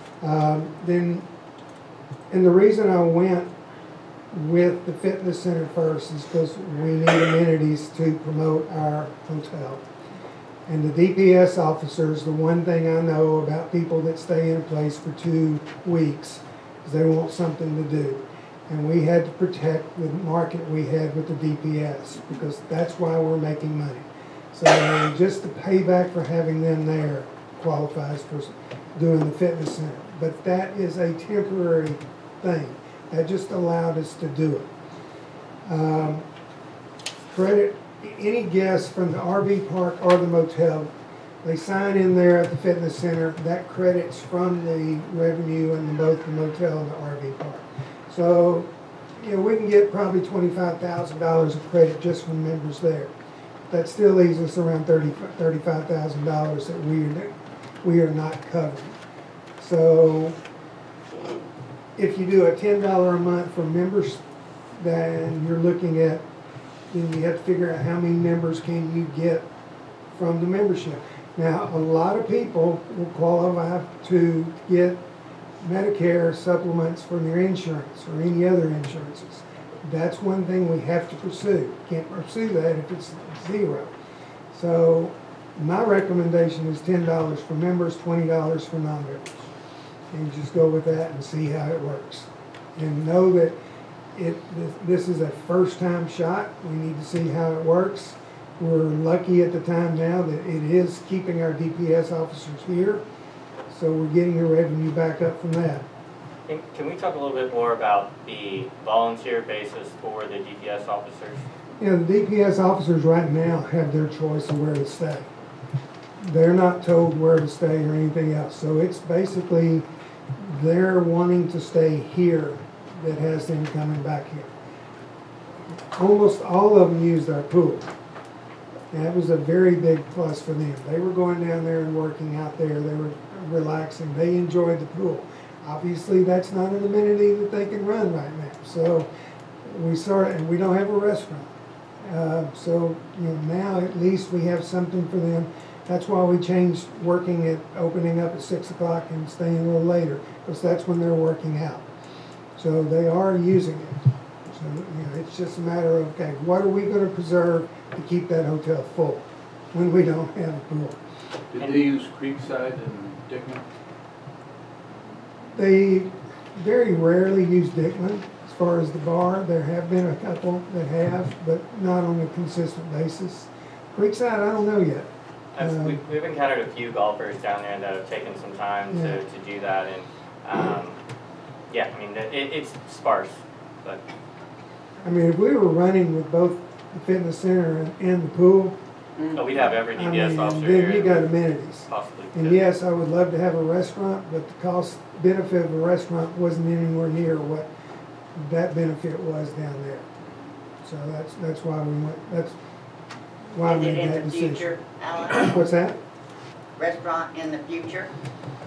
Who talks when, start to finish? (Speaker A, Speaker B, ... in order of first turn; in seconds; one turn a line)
Speaker A: 0.2-1.3
Speaker A: 2.3-3.5
Speaker A: 4.3-9.8
Speaker A: 10.7-34.7
Speaker A: 35.6-36.3
Speaker A: 37.3-40.9
Speaker A: 41.4-53.1
Speaker A: 53.7-59.0
Speaker A: 59.6-60.4
Speaker A: 62.0-64.2
Speaker A: 64.7-66.2
Speaker A: 66.9-69.4
Speaker A: 70.1-75.0
Speaker A: 75.6-83.9
Speaker A: 84.5-89.5
Speaker A: 90.1-93.5
Speaker A: 94.1-103.0
Speaker A: 103.7-105.8
Speaker B: 106.5-111.4
Speaker A: 111.8-115.3
Speaker A: 116.2-124.5
Speaker A: 125.9-127.9
Speaker A: 128.9-139.1
Speaker A: 139.6-151.9
Speaker A: 152.6-161.0
Speaker C: 161.5-163.6
Speaker B: 161.6-161.9
Speaker A: 165.5-175.1
Speaker B: 175.5-181.0
Speaker A: 175.6-176.0
Speaker A: 178.9-179.2
Speaker B: 181.7-184.0
Speaker A: 185.0-188.8
Speaker B: 189.3-191.3
Speaker A: 189.9-197.7
Speaker B: 191.9-192.6
Speaker A: 198.3-200.1
Speaker A: 200.8-202.6
Speaker A: 203.5-204.7
Speaker D: 203.6-205.5
Speaker A: 205.3-206.0
Speaker D: 206.8-208.1